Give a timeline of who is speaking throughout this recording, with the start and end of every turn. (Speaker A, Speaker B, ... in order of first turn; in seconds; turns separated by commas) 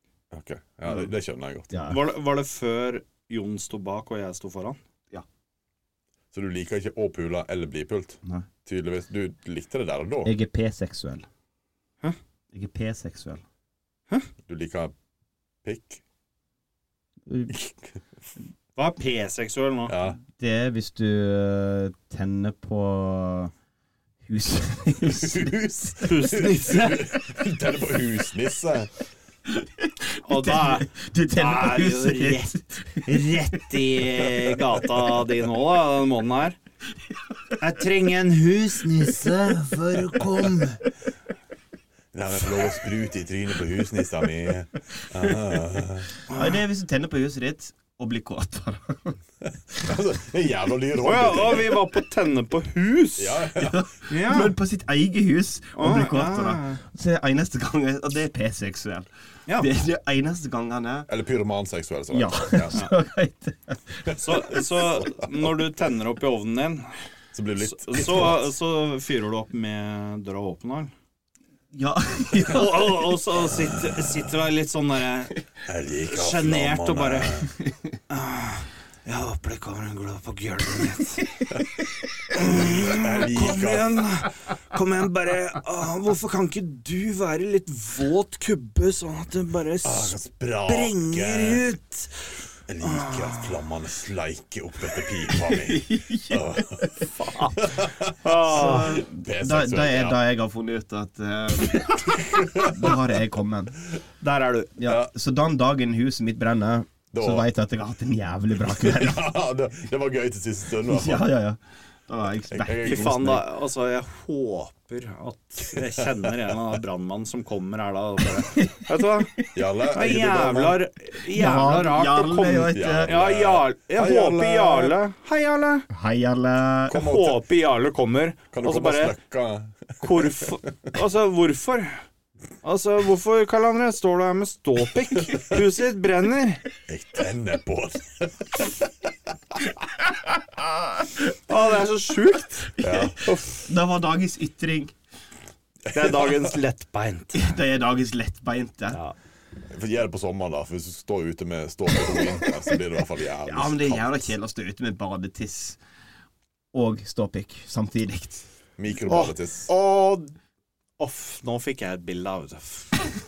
Speaker A: 0.3-1.7, Speaker B: 1.7-2.0, Speaker C: 1.9-4.8, Speaker A: 6.3-10.3, Speaker B: 10.2-11.3, Speaker B: 12.5-13.4, Speaker A: 14.5-14.9, Speaker A: 15.6-16.0, Speaker B: 17.3-17.6, Speaker A: 17.5-17.8, Speaker C: 18.8-19.9, Speaker A: 19.9-20.2, Speaker B: 20.3-23.5, Speaker B: 24.2-25.6, Speaker A: 25.2-28.9, Speaker C: 26.1-27.1, Speaker B: 29.5-34.1, Speaker C: 30.2-36.6, Speaker C: 37.6-40.8, Speaker A: 42.1-46.1, Speaker C: 46.3-46.6, Speaker B: 46.3-49.2, Speaker A: 49.5-51.8, Speaker C: 51.0-53.5, Speaker A: 53.2-53.9, Speaker B: 53.6-61.1, Speaker C: 54.1-54.5, Speaker C: 55.8-56.8, Speaker A: 61.1-62.8, Speaker B: 62.1-64.1, Speaker A: 64.1-65.3, Speaker C: 64.2-66.9, Speaker A: 67.3-68.5, Speaker C: 67.6-70.9, Speaker B: 71.7-73.2, Speaker C: 72.4-75.4, Speaker A: 75.6-77.5, Speaker C: 76.1-77.5, Speaker B: 77.6-77.9, Speaker C: 78.1-81.3, Speaker C: 82.3-90.2, Speaker A: 82.4-84.1, Speaker A: 89.8-91.7, Speaker C: 90.7-92.2, Speaker A: 92.7-100.2, Speaker C: 92.8-93.5, Speaker B: 95.5-97.0, Speaker C: 97.1-97.7, Speaker C: 98.2-99.0, Speaker B: 98.3-103.8, Speaker A: 102.2-103.0, Speaker C: 104.2-104.8, Speaker B: 104.8-109.2, Speaker A: 107.1-107.5, Speaker A: 108.7-111.3, Speaker B: 110.8-113.4, Speaker A: 112.5-113.4, Speaker C: 112.8-125.9, Speaker A: 115.8-116.3, Speaker B: 118.6-118.8, Speaker A: 119.5-120.8, Speaker B: 121.3-123.2, Speaker A: 122.7-125.0, Speaker B: 125.9-127.0, Speaker A: 126.9-127.4, Speaker C: 126.9-129.2, Speaker A: 128.5-130.9, Speaker C: 130.0-132.0, Speaker C: 132.6-136.7, Speaker A: 136.9-138.9, Speaker C: 141.5-143.3, Speaker A: 142.8-143.4, Speaker B: 142.8-144.9, Speaker A: 145.9-146.5, Speaker C: 145.9-147.6, Speaker B: 147.3-149.0, Speaker A: 149.7-154.3, Speaker B: 153.4-155.8, Speaker B: 156.7-158.5, Speaker A: 158.8-159.7, Speaker C: 159.1-160.3, Speaker C: 161.0-163.1